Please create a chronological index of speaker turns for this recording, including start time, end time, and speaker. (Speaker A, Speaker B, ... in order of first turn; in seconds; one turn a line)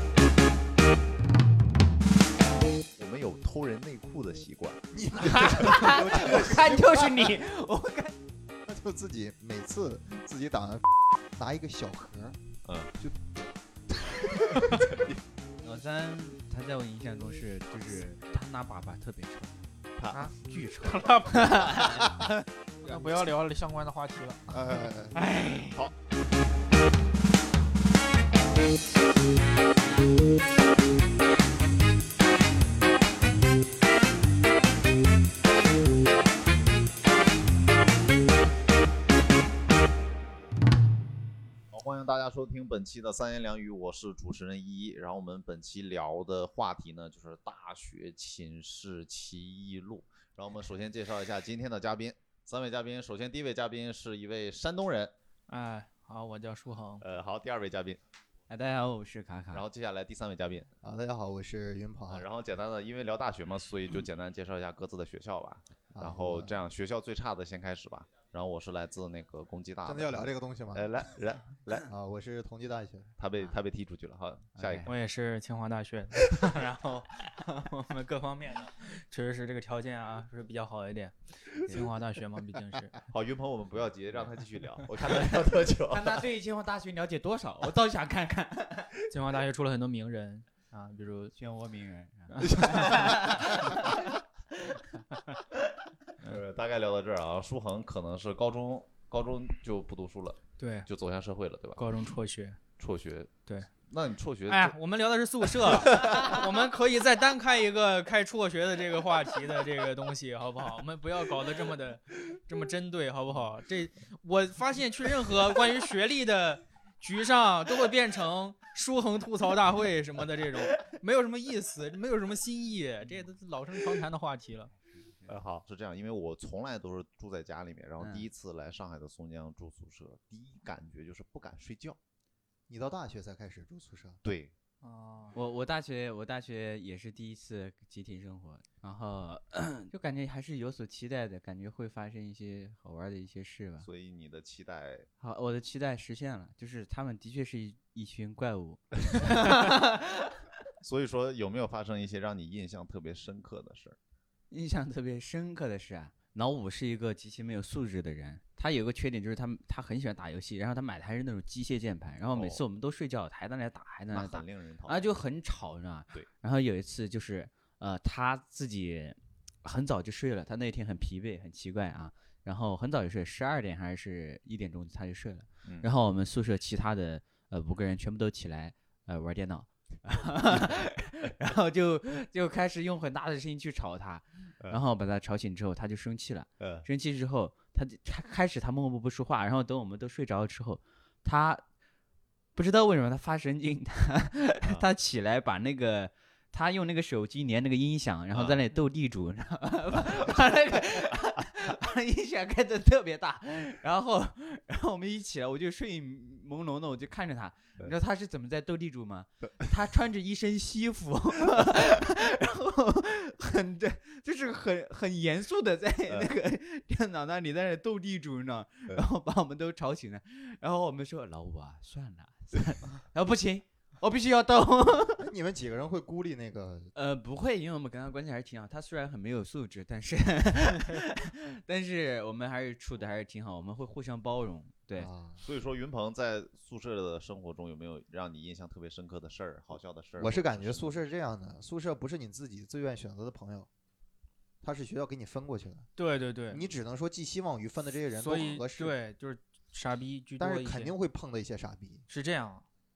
Speaker A: 3.0-5.7
Speaker B: 4.9-7.4
Speaker C: 5.5-8.2
Speaker B: 8.7-12.4
Speaker A: 12.7-12.9
Speaker B: 13.0-13.3
Speaker B: 13.9-15.1
Speaker C: 15.6-19.6
Speaker A: 20.0-20.3
Speaker D: 20.1-22.0
Speaker C: 20.4-22.3
Speaker D: 22.8-24.7
Speaker B: 24.5-25.1
Speaker C: 25.2-25.8
Speaker A: 41.7-55.1
Speaker D: 55.5-57.0
Speaker A: 57.0-58.0
Speaker C: 58.5-59.6
Speaker A: 59.5-60.7
Speaker B: 60.8-62.3
Speaker A: 62.1-71.9
Speaker B: 65.9-66.6
Speaker B: 69.8-70.9
Speaker B: 71.9-73.1
Speaker A: 73.2-74.9
Speaker C: 74.6-74.9
Speaker D: 74.9-83.0
Speaker A: 83.1-86.2
Speaker C: 85.9-88.9
Speaker D: 89.1-91.3
Speaker C: 91.3-94.1
Speaker D: 92.3-94.0
Speaker A: 96.2-101.9
Speaker D: 100.6-100.9
Speaker D: 101.8-102.6
Speaker A: 102.8-103.3
Speaker A: 103.9-104.8
Speaker D: 104.5-124.7
Speaker A: 125.3-132.0
Speaker C: 128.0-128.3
Speaker B: 132.7-134.2
Speaker A: 134.2-134.5
Speaker D: 134.8-135.4
Speaker C: 135.3-143.9
Speaker A: 143.8-145.1
Speaker C: 145.2-150.2
Speaker A: 150.8-154.0
Speaker C: 154.5-191.6
Speaker A: 162.3-162.6
Speaker A: 164.1-165.1
Speaker A: 186.6-186.9
Speaker C: 192.6-225.2
Speaker A: 198.3-198.6
Speaker B: 225.2-226.9
Speaker C: 226.9-235.1
Speaker B: 235.0-235.4
Speaker A: 235.4-240.8
Speaker B: 240.2-243.7
Speaker B: 244.6-245.9
Speaker D: 246.0-246.6
Speaker B: 246.5-249.0
Speaker D: 248.2-250.9
Speaker B: 250.4-252.0
Speaker D: 252.1-252.7